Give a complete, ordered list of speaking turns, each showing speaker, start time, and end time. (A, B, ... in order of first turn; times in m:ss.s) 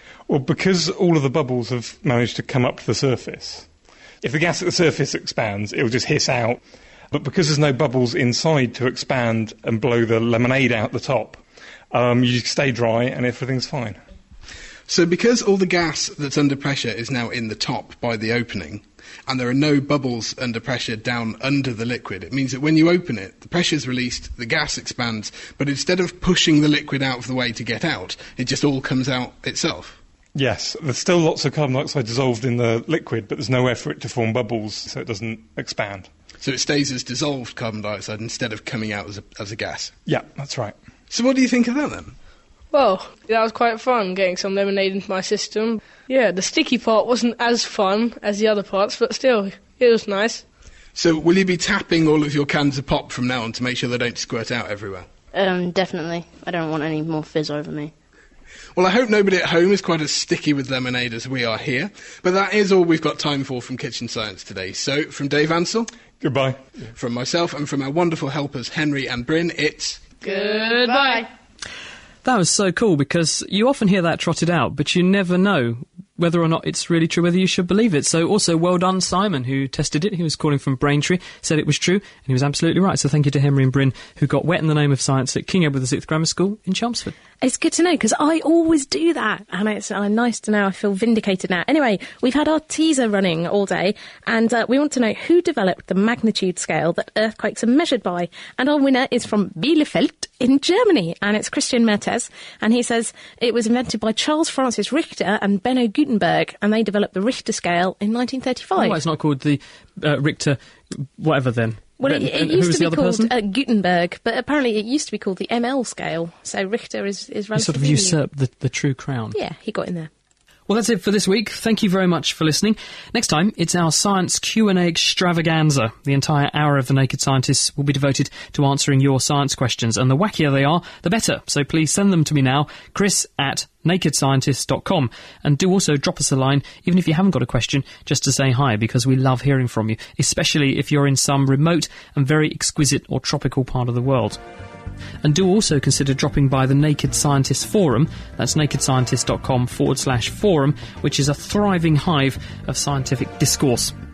0:00.3-0:03.7 A
0:04.2-0:06.6 A
0:07.1-0:14.0 A
0:14.9-0:30.0 B
0:30.3-0:36.1 A
0:36.4-0:39.9 B
0:40.0-0:40.7 A
0:41.1-0:42.2 B
0:42.7-0:50.4 C
0:50.9-0:55.1 B
0:55.3-0:57.9 D
0:58.7-1:05.9 B
1:06.2-1:06.6 A
1:06.9-1:10.0 B
1:10.2-1:11.3 C
1:12.2-1:27.1 E
1:27.4-1:49.0 F
1:48.8-1:53.3 E
1:52.0-1:58.2 F
1:57.5-1:59.4 E
1:59.3-2:00.1 F
2:00.7-2:24.4 E
2:25.2-2:33.9 E